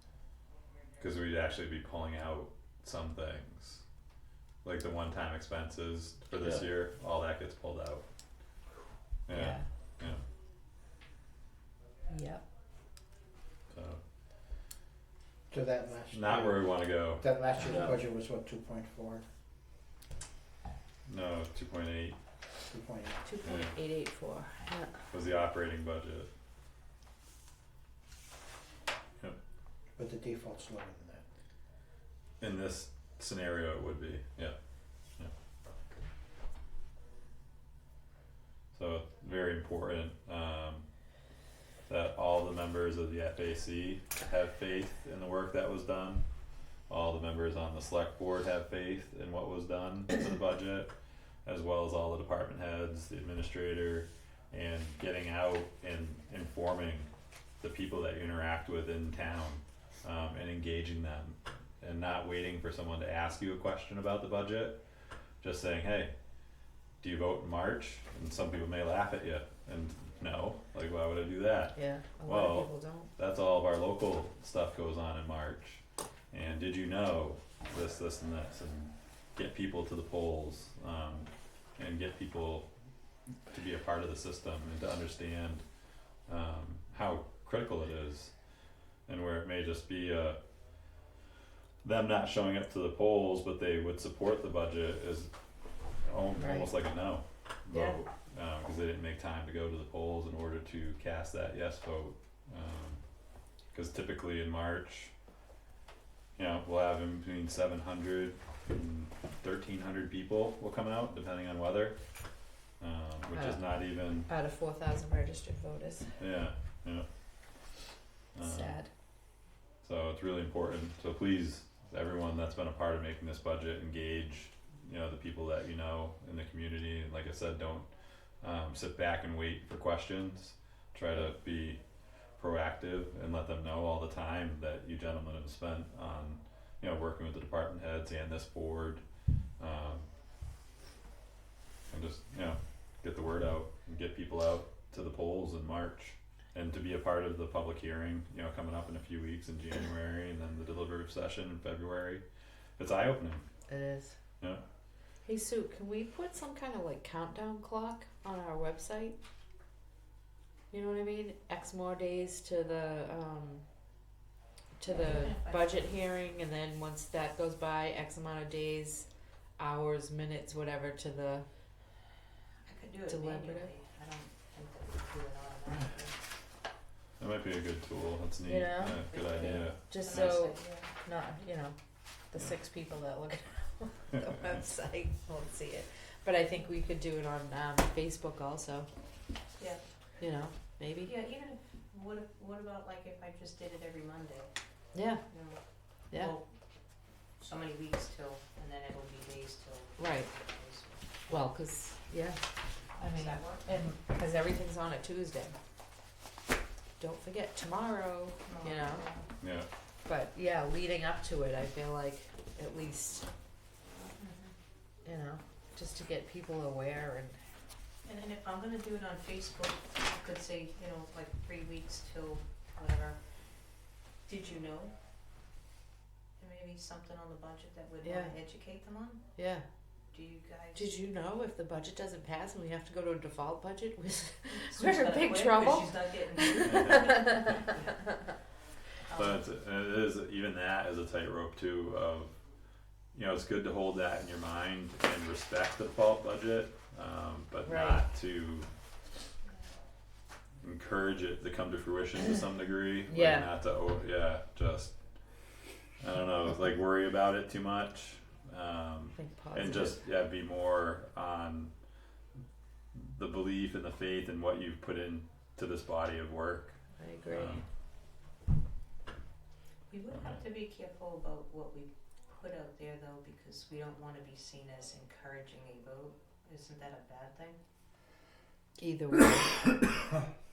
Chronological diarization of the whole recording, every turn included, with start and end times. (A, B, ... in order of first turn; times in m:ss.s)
0:01.0-0:03.8 A
0:04.6-0:08.0 A
0:09.3-0:10.2 A
0:09.3-0:09.6 B
0:12.1-0:12.4 B
0:13.7-0:14.0 A
0:15.5-0:19.2 C
0:16.1-0:17.2 A
0:17.6-0:17.9 B
0:21.0-0:22.2 A
0:22.7-0:23.1 C
0:23.2-0:25.0 B
0:23.4-0:23.7 A
0:25.1-0:26.3 A
0:30.0-0:31.2 C
0:32.4-0:34.5 A
0:38.7-0:40.8 A
0:41.9-0:46.2 A
0:46.9-0:50.9 A
0:51.4-0:57.1 A
0:57.6-1:04.8 A
1:05.4-1:06.1 A
1:07.0-1:22.7 A
1:11.8-1:13.1 B
1:23.5-1:25.6 A
1:26.3-1:28.3 A
1:29.1-1:30.4 A
1:31.8-1:35.3 A
1:36.0-1:43.0 A
1:36.4-1:36.7 B
1:43.7-1:45.1 A
1:46.4-1:52.0 A
1:52.8-1:54.3 A
1:53.3-1:53.6 B
1:54.2-1:56.1 B
1:56.2-1:57.0 A
1:58.3-1:58.8 A
1:58.4-1:58.9 B
1:59.8-2:07.9 A
2:08.4-2:11.8 A
2:12.4-2:19.0 A
2:19.6-2:20.1 A
2:21.9-2:32.2 A
2:32.8-2:33.4 A
2:33.7-2:34.1 B
2:35.2-2:39.1 B
2:40.7-2:43.6 B
2:44.8-2:49.0 B
2:44.9-2:45.8 D
2:49.6-2:51.4 B
2:52.6-2:56.2 D
2:53.1-2:53.7 B
2:57.2-3:00.4 A
2:58.4-3:01.7 B
2:59.1-3:00.9 D
3:02.3-3:08.9 B
3:09.6-3:09.8 D
3:10.2-3:11.1 B
3:11.0-3:14.5 D
3:14.9-3:15.2 B
3:15.3-3:15.6 D
3:16.1-3:16.6 D
3:17.4-3:21.3 D
3:20.0-3:20.3 B
3:21.3-3:22.4 B
3:23.0-3:25.5 B
3:23.1-3:23.7 D
3:27.0-3:29.0 B
3:28.4-3:29.3 D
3:29.4-3:29.7 A
3:30.0-3:33.3 B
3:34.1-3:34.5 D
3:35.0-3:37.4 B
3:38.0-3:43.2 D
3:44.2-3:44.9 D
3:46.4-3:49.2 D
3:48.0-3:48.4 B
3:49.4-3:49.6 B
3:50.1-3:50.8 D
3:50.7-3:58.2 B
3:54.6-3:58.0 D
3:56.6-3:57.4 A
3:59.0-3:59.4 D
3:59.1-4:02.4 A
4:03.1-4:08.7 A
4:07.6-4:08.0 B
4:10.6-4:15.0 A
4:13.1-4:13.5 B
4:16.0-4:21.7 A
4:19.2-4:20.0 B
4:22.9-4:26.8 A
4:27.0-4:27.6 B
4:27.3-4:27.6 A
4:29.9-4:37.6 D
4:30.1-4:30.4 A
4:38.8-4:39.6 B